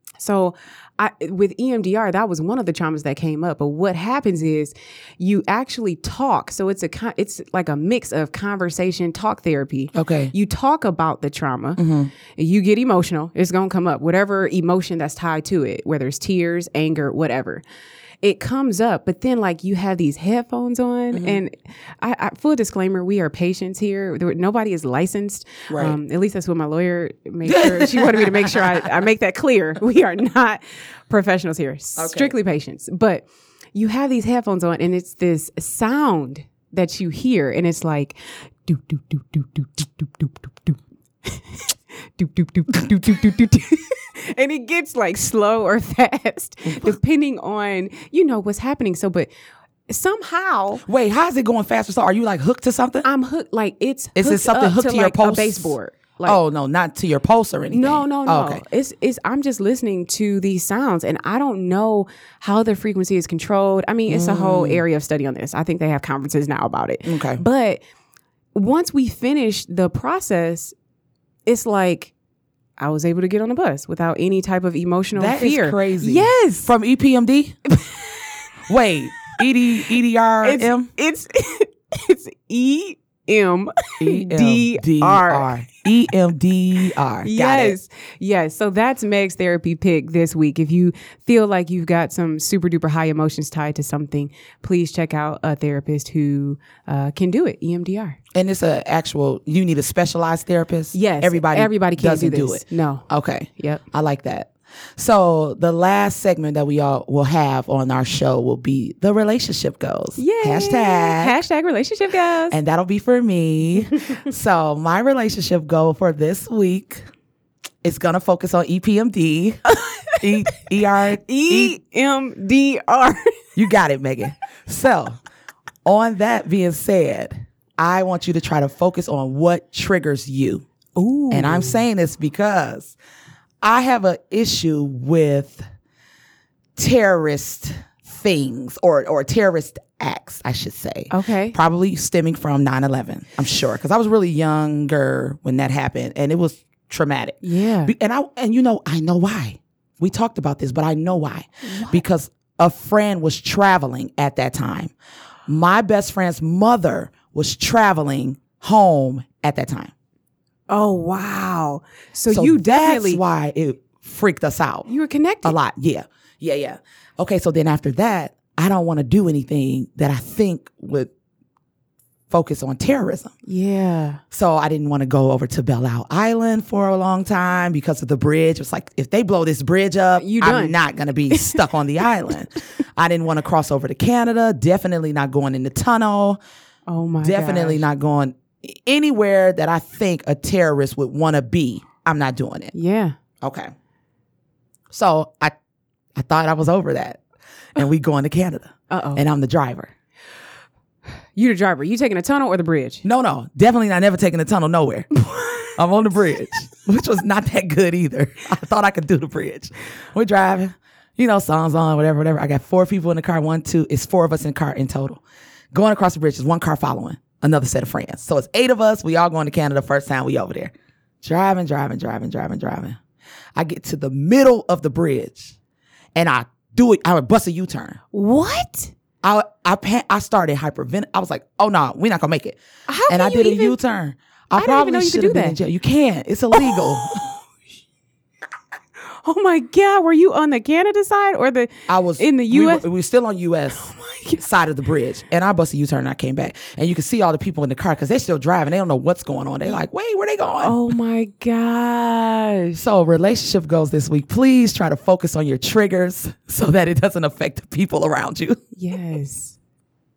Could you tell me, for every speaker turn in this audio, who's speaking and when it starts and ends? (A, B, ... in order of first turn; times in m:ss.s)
0:00.2-0:17.6 A
0:09.9-0:10.3 B
0:11.8-0:12.1 B
0:18.2-0:49.3 A
0:21.1-0:21.4 B
0:25.7-0:26.0 B
0:27.4-0:29.0 B
0:32.0-0:32.4 B
0:46.6-0:47.0 B
0:49.9-0:50.8 A
0:50.8-0:53.0 B
0:53.0-0:56.4 A
0:54.2-0:58.6 B
0:57.7-1:07.8 A
1:04.1-1:04.8 B
1:07.0-1:07.4 B
1:08.5-1:10.7 A
1:11.4-1:12.1 A
1:12.8-1:16.7 A
1:15.1-1:17.6 B
1:18.6-1:20.9 B
1:20.4-1:25.5 A
1:24.0-1:27.8 B
1:27.2-1:38.2 A
1:38.3-1:51.3 B
1:40.9-1:43.8 A
1:50.2-1:52.6 A
1:52.5-1:57.1 B
1:57.8-1:59.6 B
1:59.7-2:00.2 A
2:00.2-2:01.8 B
2:01.2-2:03.3 A
2:03.6-2:05.2 B
2:05.8-2:10.6 B
2:11.0-2:11.8 A
2:11.3-2:12.9 B
2:13.6-2:15.6 B
2:16.8-2:34.9 B
2:21.1-2:21.6 A
2:27.4-2:27.9 A
2:31.6-2:32.0 A
2:35.5-2:39.9 B
2:40.7-2:43.2 A
2:42.3-2:44.9 B
2:44.9-2:45.6 A
2:45.4-2:51.1 B
2:52.3-2:53.3 B
2:53.4-2:54.2 A
2:54.3-3:06.4 B
3:00.2-3:00.8 A
3:01.3-3:01.6 A
3:06.9-3:07.8 A
3:07.2-3:12.7 B
3:12.7-3:13.2 A
3:13.4-3:13.7 B
3:14.9-3:15.5 B
3:16.1-3:17.2 B
3:17.8-3:19.9 B
3:18.9-3:19.2 A
3:21.4-3:23.0 A
3:23.0-3:25.1 B
3:25.2-3:25.8 A
3:25.7-3:35.2 B
3:35.7-3:43.0 B
3:43.5-3:45.6 B
3:46.1-3:48.0 B
3:48.1-3:48.9 A
3:49.2-3:57.3 B
3:52.9-3:53.8 A
3:54.6-3:55.6 A
3:56.6-3:57.4 A
3:59.1-4:02.8 A
4:01.9-4:03.8 B
4:03.7-4:04.4 A
4:04.4-4:10.8 B
4:10.6-4:12.8 A
4:12.8-4:18.6 B
4:18.7-4:19.6 A